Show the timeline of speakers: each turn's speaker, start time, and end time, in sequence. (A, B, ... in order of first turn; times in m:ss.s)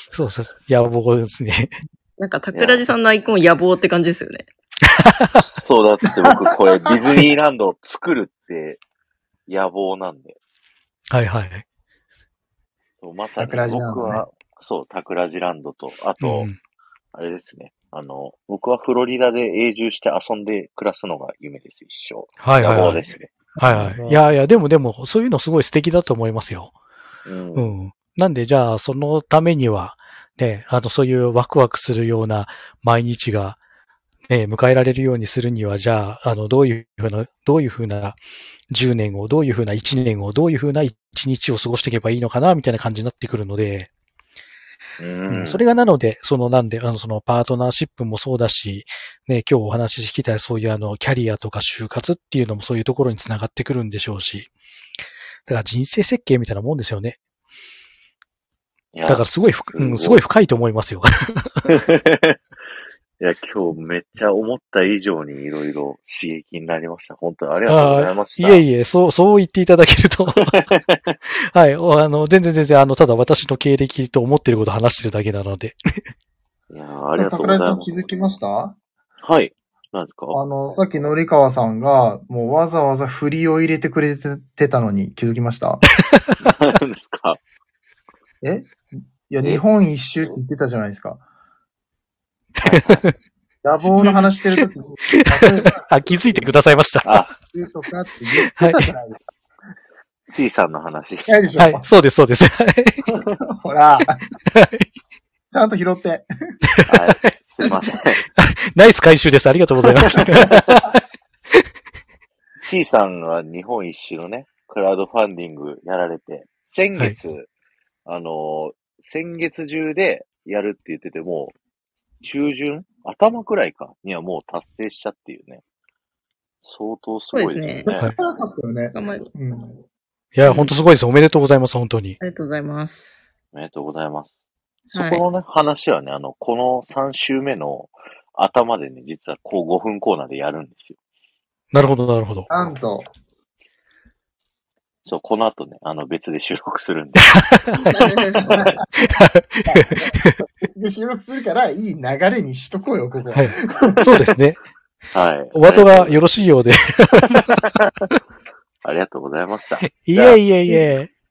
0:00.1-0:01.8 A
0:02.2-0:04.5 B
0:02.5-0:02.8 C
0:04.9-0:05.3 A
0:05.3-0:08.8 C
0:09.5-0:10.4 C
0:11.1-0:11.6 A
0:13.0-0:16.5 C
0:13.4-0:14.2 D
0:16.2-0:16.6 A
0:17.1-0:23.3 C
0:22.4-0:23.0 A
0:23.6-0:26.7 A
0:23.6-0:24.2 D
0:27.2-0:27.7 C
0:27.5-0:33.6 A
0:34.3-0:38.2 A
0:38.7-0:43.9 A
0:45.0-0:45.6 C
0:45.3-0:54.5 A
0:55.5-0:57.2 A
0:58.9-1:00.2 C
0:59.1-1:01.6 A
1:01.7-1:02.4 C
1:03.2-1:08.6 C
1:07.7-1:10.6 A
1:10.5-1:11.1 C
1:11.5-1:15.8 A
1:16.7-1:17.9 C
1:17.2-1:18.8 D
1:19.2-1:20.4 C
1:20.3-1:25.8 D
1:26.0-1:26.4 A
1:26.4-1:27.4 C
1:28.4-1:31.2 D
1:32.6-1:33.1 A
1:33.6-1:36.4 D
1:34.0-1:37.3 A
1:37.0-1:37.3 C
1:37.5-1:39.2 D
1:38.5-1:38.9 A
1:40.3-1:41.3 C
1:41.2-1:41.9 D
1:41.6-1:43.0 A
1:43.5-1:44.2 D
1:44.5-1:44.9 A
1:45.5-1:46.3 D
1:46.9-1:48.2 C
1:48.4-1:50.9 A
1:52.6-1:57.5 C
1:58.0-2:01.5 C
2:02.2-2:05.6 C
2:06.6-2:08.1 C
2:07.3-2:07.9 B
2:08.2-2:09.8 D
2:08.9-2:09.3 B
2:10.3-2:12.2 A
2:10.4-2:10.7 C
2:12.2-2:13.1 B
2:13.5-2:14.3 C
2:14.9-2:21.0 C
2:14.9-2:15.2 B
2:21.7-2:22.5 A
2:22.5-2:23.1 D
2:25.0-2:28.7 C
2:27.3-2:27.8 A
2:27.9-2:28.4 B
2:28.4-2:28.8 D
2:29.0-2:30.3 A
2:29.6-2:34.2 D
2:33.3-2:34.6 A
2:35.1-2:36.2 C
2:35.5-2:37.5 A
2:37.6-2:37.9 C
2:38.8-2:40.4 C
2:39.8-2:41.1 A